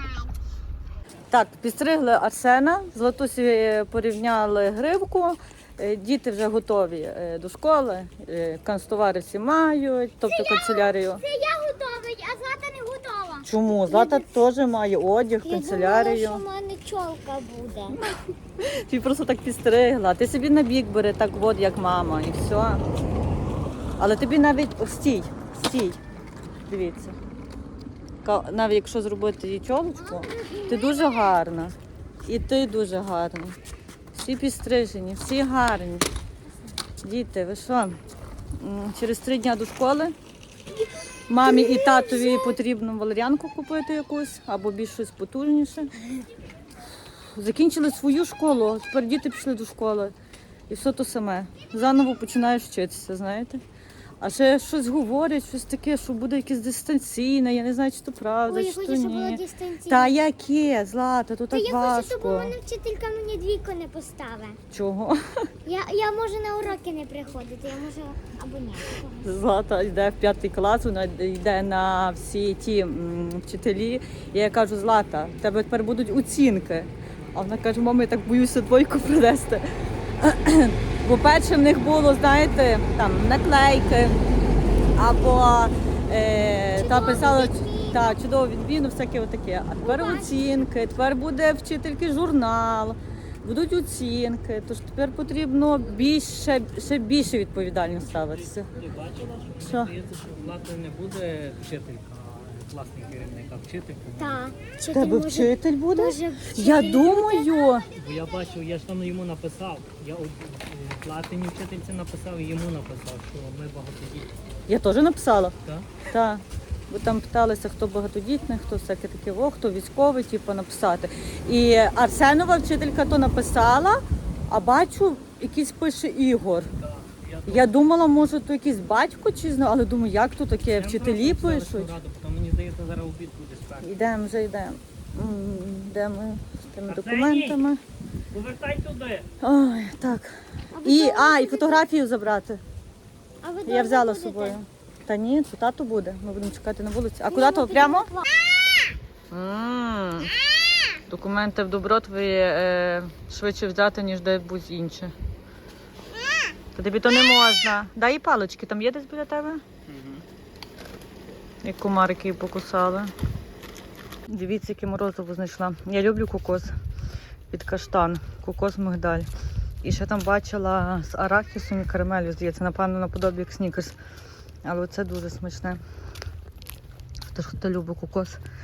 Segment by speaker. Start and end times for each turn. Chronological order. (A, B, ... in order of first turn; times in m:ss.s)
0:01.3-0:11.2 A
0:10.3-0:14.3 B
0:13.4-0:16.4 A
0:15.4-0:18.0 B
0:18.0-0:22.8 A
0:24.0-0:26.0 A
0:26.7-0:27.2 A
0:28.2-0:33.6 A
0:30.1-0:31.0 B
0:34.1-0:36.1 A
0:37.0-0:38.0 A
0:38.5-0:40.2 A
0:41.3-0:45.9 A
0:41.6-0:42.5 B
0:47.3-0:50.1 A
0:50.7-0:53.6 A
0:54.2-1:02.6 A
0:58.5-1:00.2 B
1:01.5-1:04.6 B
1:04.7-1:05.2 A
1:05.7-1:09.2 B
1:09.1-1:24.2 A
1:25.0-1:38.7 A
1:26.8-1:28.2 B
1:29.8-1:30.5 B
1:38.3-1:44.5 C
1:39.6-1:39.9 A
1:44.2-1:47.5 B
1:44.9-1:47.9 A
1:47.9-1:54.5 C
1:54.7-2:06.7 A
2:06.8-2:07.8 C
2:07.5-2:12.0 A
2:10.7-2:14.1 C
2:13.8-2:17.8 A
2:16.9-2:17.6 C
2:18.3-2:19.3 C
2:19.4-2:22.6 A
2:20.8-2:21.8 B
2:23.4-2:24.6 B
2:23.6-2:28.1 A
2:27.3-2:28.3 B
2:29.3-2:30.3 A
2:31.1-2:35.1 A
2:36.8-2:39.6 A
2:39.9-2:40.2 C
2:41.6-2:43.1 A
2:44.3-2:46.7 A
2:47.5-2:49.3 A
2:49.8-2:54.0 A
2:54.6-2:55.8 A
2:57.3-2:58.4 A